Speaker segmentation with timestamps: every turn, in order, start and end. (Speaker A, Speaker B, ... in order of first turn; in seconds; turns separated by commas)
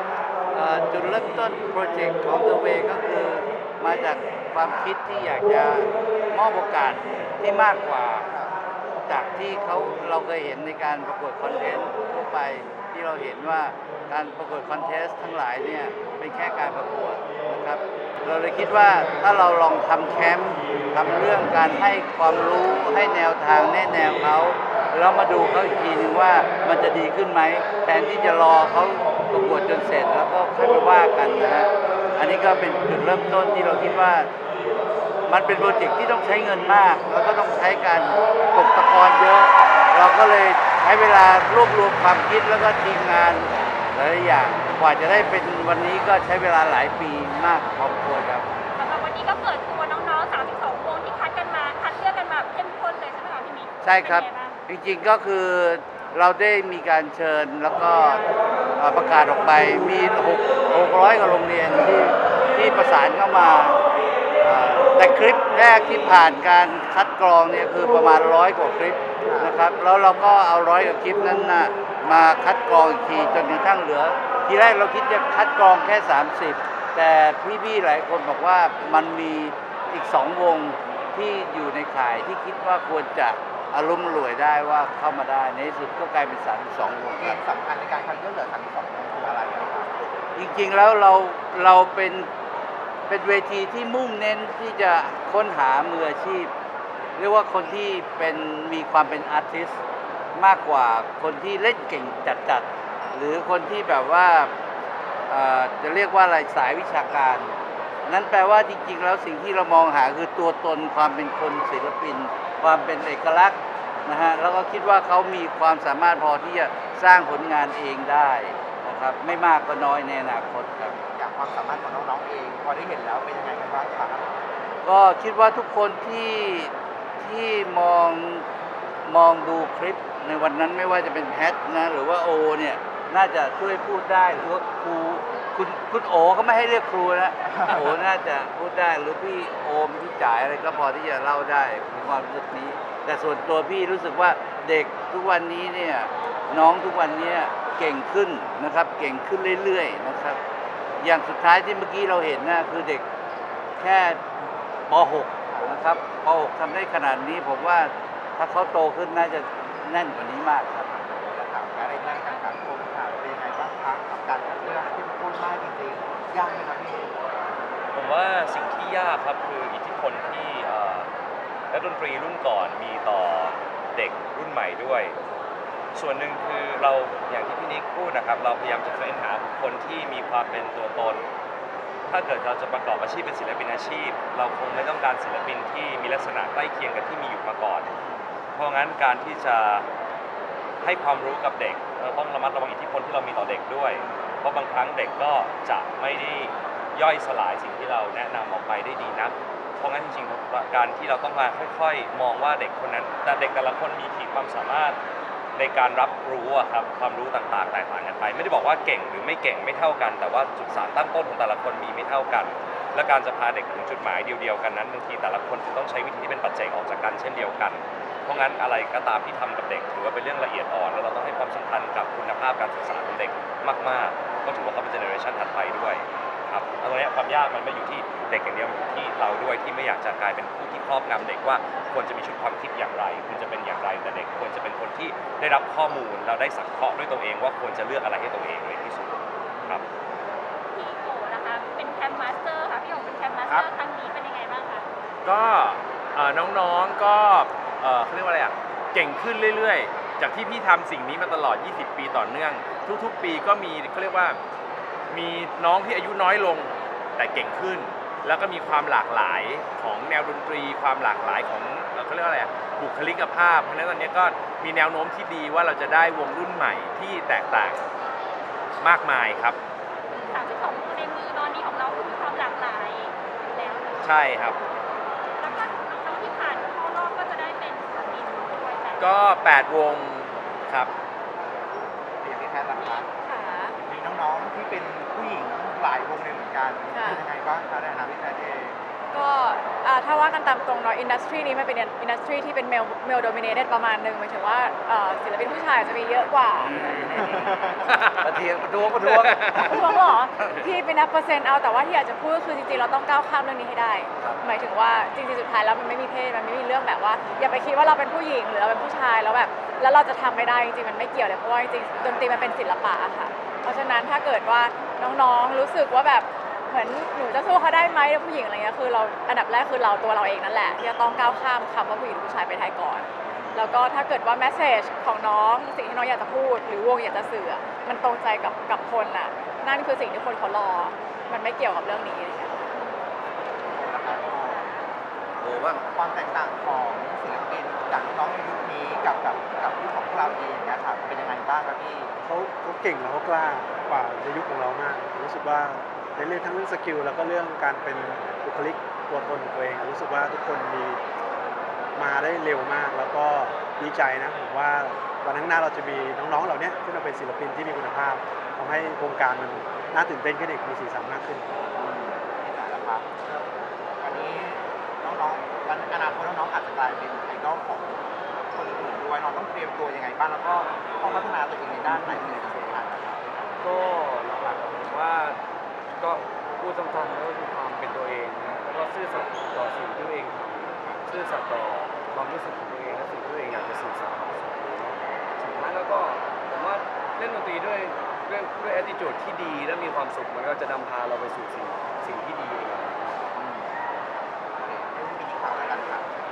Speaker A: 0.5-8.3, Speaker A: 9.1-34.3, Speaker A: 35.3-48.5, Speaker B: 48.8-54.5, Speaker A: 53.8-63.8, Speaker A: 64.4-87.4, Speaker C: 69.2-69.5, Speaker C: 87.2-90.0, Speaker A: 90.3-92.3, Speaker A: 93.1-96.5, Speaker A: 97.2-99.8, Speaker A: 100.3-104.5, Speaker A: 105.3-107.5, Speaker A: 108.0-120.9, Speaker C: 121.0-124.4, Speaker A: 124.8-128.4, Speaker A: 129.1-150.4, Speaker A: 151.0-153.1, Speaker A: 153.8-154.2, Speaker A: 154.9-160.9, Speaker C: 155.5-155.8, Speaker C: 160.9-167.2, Speaker D: 167.9-171.1, Speaker D: 171.7-175.2, Speaker D: 175.9-181.2, Speaker D: 182.1-187.9, Speaker D: 188.5-189.8, Speaker D: 190.8-205.0, Speaker D: 205.6-239.8, Speaker B: 240.7-244.8, Speaker E: 245.2-254.4, Speaker E: 255.1-267.8, Speaker E: 268.8-269.6, Speaker B: 270.2-274.1, Speaker E: 274.0-274.6, Speaker B: 275.4-279.1, Speaker E: 279.0-280.9, Speaker C: 282.2-283.1, Speaker F: 283.2-283.8, Speaker C: 283.8-288.8, Speaker F: 286.9-287.2, Speaker F: 289.1-296.8, Speaker A: 296.6-297.7, Speaker C: 297.1-297.9, Speaker E: 297.9-298.3, Speaker A: 298.2-300.6, Speaker E: 299.0-299.8, Speaker F: 299.6-332.6, Speaker A: 311.9-312.4, Speaker C: 332.7-333.0, Speaker C: 333.6-334.6, Speaker A: 335.4-335.8, Speaker C: 335.9-342.1, Speaker G: 342.2-351.0, Speaker G: 351.9-361.4, Speaker C: 361.8-373.6, Speaker H: 371.9-372.5, Speaker H: 373.6-375.4, Speaker H: 376.0-393.3, Speaker C: 393.4-393.7, Speaker C: 394.6-396.1